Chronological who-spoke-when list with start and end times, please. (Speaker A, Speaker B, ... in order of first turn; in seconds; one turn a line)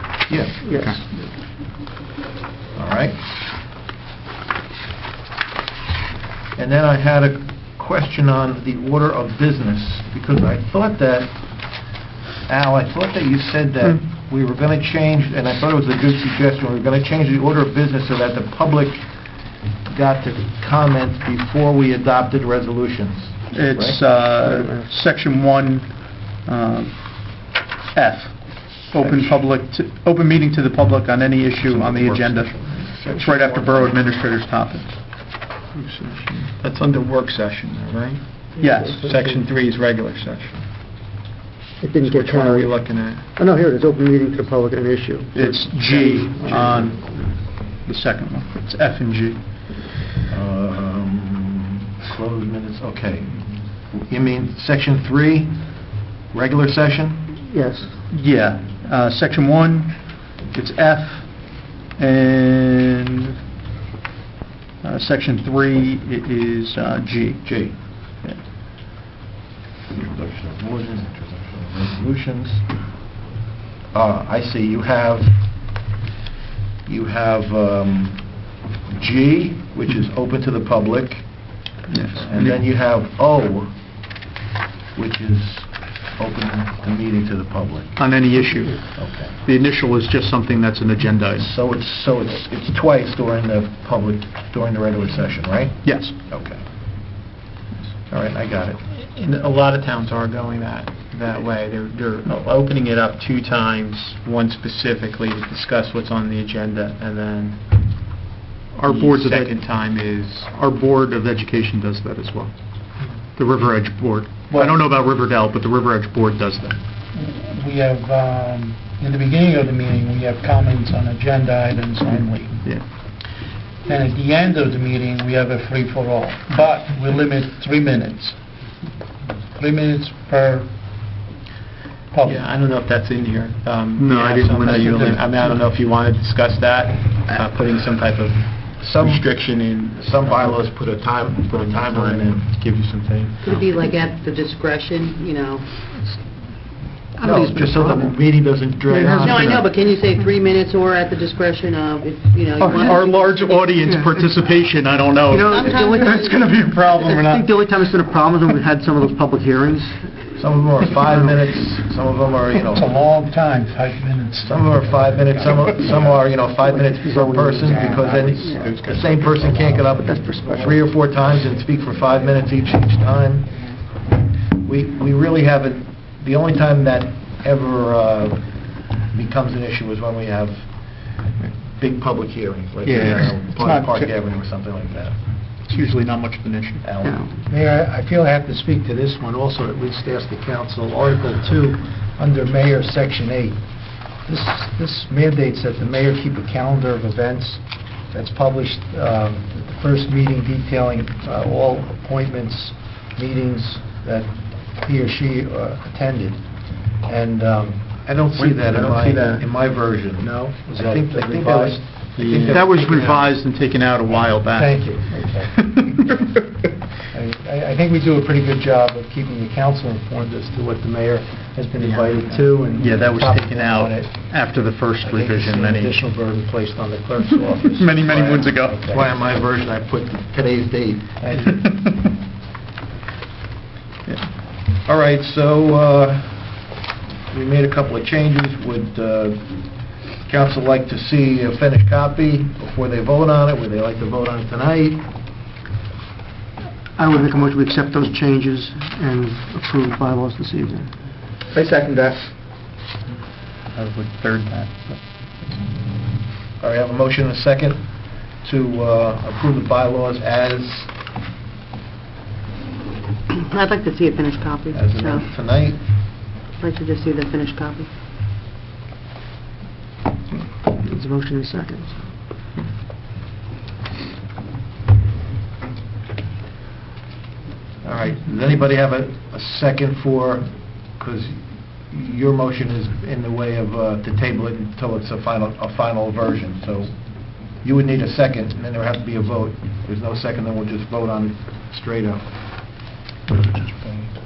Speaker A: 0.3-0.9
Speaker B: 0.6-1.0
Speaker A: 2.7-3.2
Speaker A: 6.5-11.9
Speaker A: 12.4-24.0
Speaker C: 23.5-35.0
Speaker B: 24.4-24.9
Speaker A: 31.6-34.1
Speaker D: 35.7-40.7
Speaker B: 38.6-39.4
Speaker C: 38.6-39.0
Speaker B: 41.8-47.4
Speaker D: 42.0-43.3
Speaker C: 45.3-49.6
Speaker A: 50.3-57.3
Speaker B: 57.5-58.0
Speaker C: 58.1-63.2
Speaker C: 64.8-67.7
Speaker A: 67.4-67.8
Speaker A: 69.9-72.8
Speaker A: 73.9-75.7
Speaker A: 76.8-83.8
Speaker C: 81.9-82.6
Speaker A: 84.9-88.0
Speaker C: 88.0-91.5
Speaker A: 88.9-89.4
Speaker A: 91.4-96.7
Speaker C: 95.8-96.1
Speaker A: 98.1-98.8
Speaker D: 98.9-108.0
Speaker C: 108.7-109.6
Speaker D: 108.8-110.5
Speaker C: 110.5-112.5
Speaker C: 113.3-116.8
Speaker E: 114.5-114.8
Speaker E: 117.1-122.6
Speaker C: 122.6-122.9
Speaker E: 123.8-128.4
Speaker E: 129.5-130.7
Speaker E: 132.1-132.4
Speaker D: 132.2-143.6
Speaker C: 134.0-135.7
Speaker A: 138.8-142.5
Speaker F: 143.4-146.2
Speaker F: 147.1-148.2
Speaker A: 147.2-149.7
Speaker B: 148.9-149.4
Speaker F: 149.2-153.5
Speaker C: 152.6-157.5
Speaker B: 153.8-154.3
Speaker B: 155.2-156.6
Speaker F: 155.4-156.4
Speaker B: 157.1-160.2
Speaker A: 160.3-163.0
Speaker E: 162.7-164.4
Speaker A: 164.4-173.6
Speaker D: 165.3-166.1
Speaker B: 166.5-168.8
Speaker D: 167.6-170.3
Speaker B: 169.6-170.8
Speaker A: 174.6-185.2
Speaker C: 182.8-184.1
Speaker C: 185.6-186.9
Speaker A: 186.8-187.3
Speaker B: 187.0-187.3
Speaker E: 187.4-208.0
Speaker A: 208.0-213.3
Speaker D: 208.4-209.4
Speaker E: 210.2-212.0
Speaker D: 212.2-212.6
Speaker C: 212.2-216.3
Speaker E: 214.1-216.2
Speaker E: 217.1-224.2
Speaker D: 221.8-222.3
Speaker C: 222.2-226.0
Speaker E: 225.0-229.4
Speaker C: 227.5-228.8
Speaker A: 228.9-231.7
Speaker C: 231.4-232.1
Speaker A: 234.8-236.8
Speaker A: 237.3-245.0
Speaker B: 246.9-250.9
Speaker E: 251.5-252.2
Speaker C: 253.7-255.0
Speaker A: 256.6-260.9
Speaker F: 263.3-265.3
Speaker A: 264.7-265.8
Speaker F: 266.6-267.9
Speaker B: 270.8-272.0
Speaker A: 277.8-292.4